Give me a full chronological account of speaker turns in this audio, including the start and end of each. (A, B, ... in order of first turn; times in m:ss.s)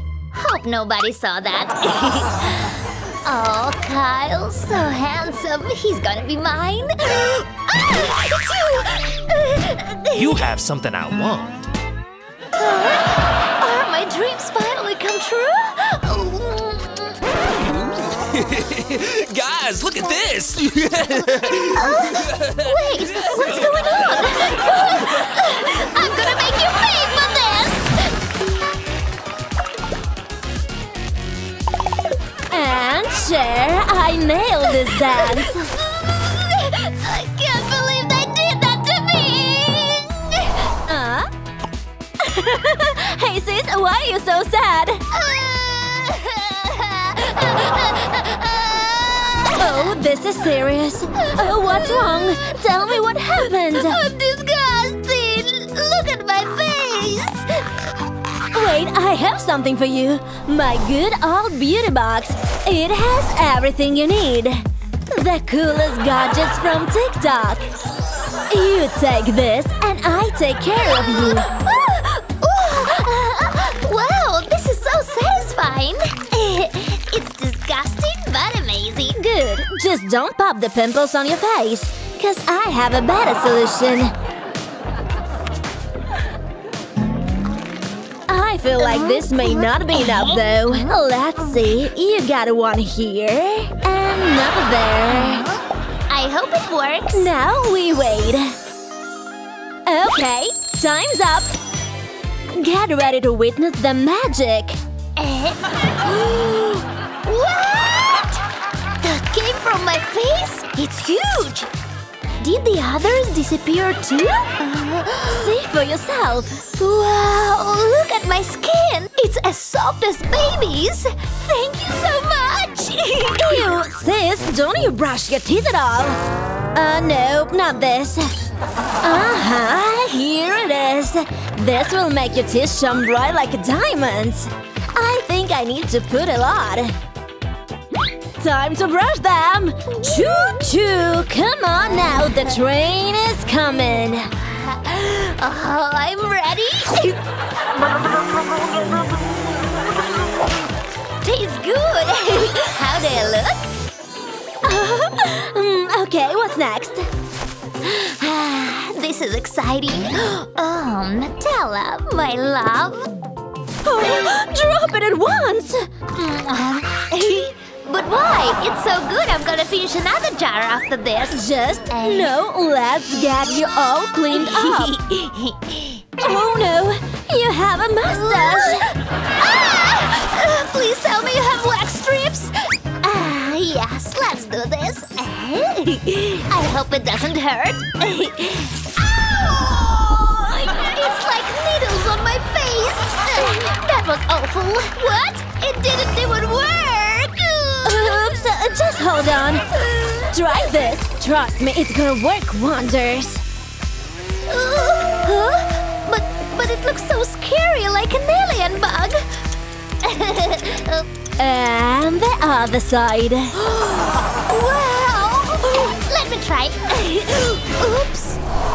0:00.3-0:10.4 A
0:10.1-0:11.6 B
0:12.6-0:17.2 A
0:17.5-0:25.9 B
0:21.7-0:28.3 A
0:32.5-0:35.6 C
0:34.8-0:40.6 A
0:40.8-0:41.3 C
0:42.2-0:45.0 C
0:45.1-0:49.9 A
0:49.5-0:54.0 C
0:51.2-0:57.6 A
0:58.5-1:07.7 C
1:08.5-1:11.5 C
1:10.8-1:19.2 A
1:19.1-1:24.1 C
1:28.3-1:35.4 C
1:28.8-1:31.0 A
1:35.1-1:37.3 A
1:37.1-1:38.6 C
1:39.8-1:41.6 C
1:42.5-1:44.8 C
1:45.2-1:48.4 A
1:49.0-1:51.7 A
1:52.4-1:55.5 A
1:55.3-1:56.7 C
1:56.8-2:03.7 A
2:03.4-2:06.2 C
2:06.7-2:08.3 C
2:09.0-2:17.0 C
2:18.4-2:24.3 C
2:19.9-2:20.7 A
2:24.4-2:27.2 A
2:27.9-2:30.3 A
2:31.2-2:33.7 A
2:34.6-2:37.1 C
2:37.8-2:43.2 A
2:43.8-2:45.9 C
2:46.1-2:52.4 A
2:51.3-2:54.9 C
2:54.3-2:56.1 A
2:56.2-2:58.8 C
2:58.1-3:18.4 A
3:17.8-3:19.6 C
3:19.8-3:20.3 A
3:20.3-3:23.4 C
3:24.4-3:29.3 A
3:30.0-3:31.1 A
3:31.4-3:33.6 C
3:33.6-3:38.4 A